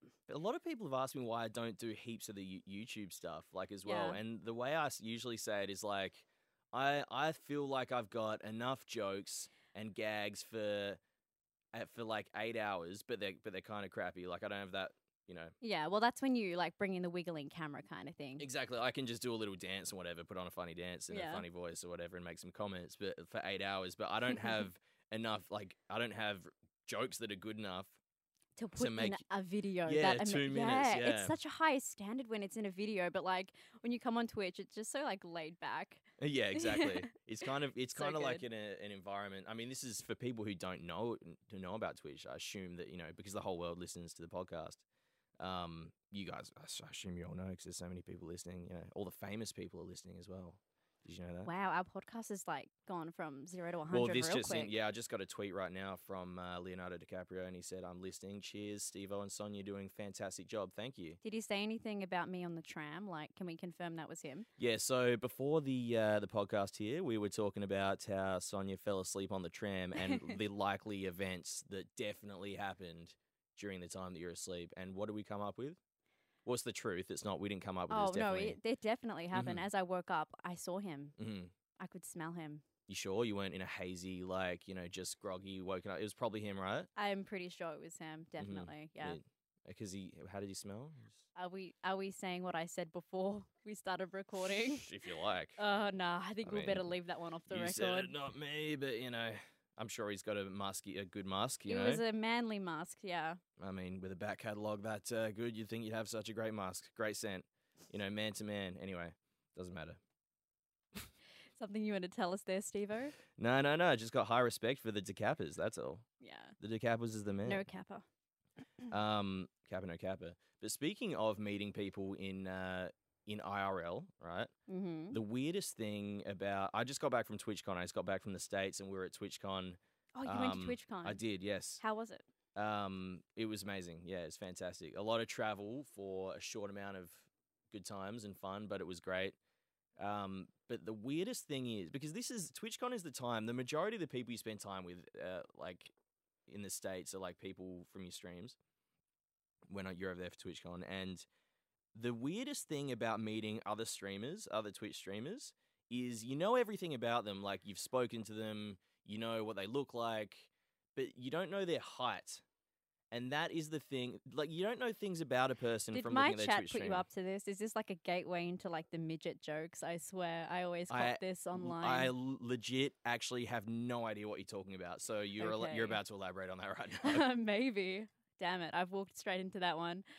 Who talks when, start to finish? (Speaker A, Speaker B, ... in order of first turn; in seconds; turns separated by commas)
Speaker A: 0.3-11.0, Speaker B: 3.8-4.2, Speaker A: 11.7-15.5, Speaker B: 15.6-18.4, Speaker A: 18.4-28.0, Speaker B: 21.1-21.4, Speaker B: 28.6-36.0, Speaker A: 28.8-29.2, Speaker A: 29.8-31.4, Speaker A: 36.2-44.8, Speaker B: 36.5-37.1, Speaker B: 37.9-38.4, Speaker A: 45.4-51.5, Speaker B: 51.4-54.7, Speaker A: 53.9-61.2, Speaker B: 61.2-64.5, Speaker A: 64.6-75.8, Speaker B: 70.0-70.4, Speaker A: 76.4-78.6, Speaker B: 77.9-81.1, Speaker A: 79.3-79.6, Speaker A: 81.2-81.5, Speaker B: 81.8-82.6, Speaker A: 82.9-86.9, Speaker B: 87.0-89.2, Speaker A: 88.4-91.2, Speaker B: 91.3-94.9, Speaker A: 94.7-95.6, Speaker B: 95.6-98.1, Speaker A: 96.4-96.9, Speaker A: 97.5-102.0, Speaker B: 101.7-103.4, Speaker A: 103.6-110.0, Speaker B: 111.5-113.2, Speaker A: 113.4-116.0, Speaker B: 116.2-116.5, Speaker A: 116.6-117.6, Speaker B: 117.4-118.0, Speaker A: 118.9-124.5, Speaker B: 124.7-125.2, Speaker A: 125.1-131.8, Speaker B: 130.2-131.2, Speaker B: 131.8-132.2, Speaker A: 132.6-139.3, Speaker A: 140.0-145.9, Speaker A: 146.5-148.6, Speaker A: 149.7-151.2, Speaker A: 151.9-162.4, Speaker A: 163.1-167.1, Speaker B: 165.9-172.1, Speaker A: 170.9-177.2, Speaker B: 175.4-176.0, Speaker B: 177.0-180.0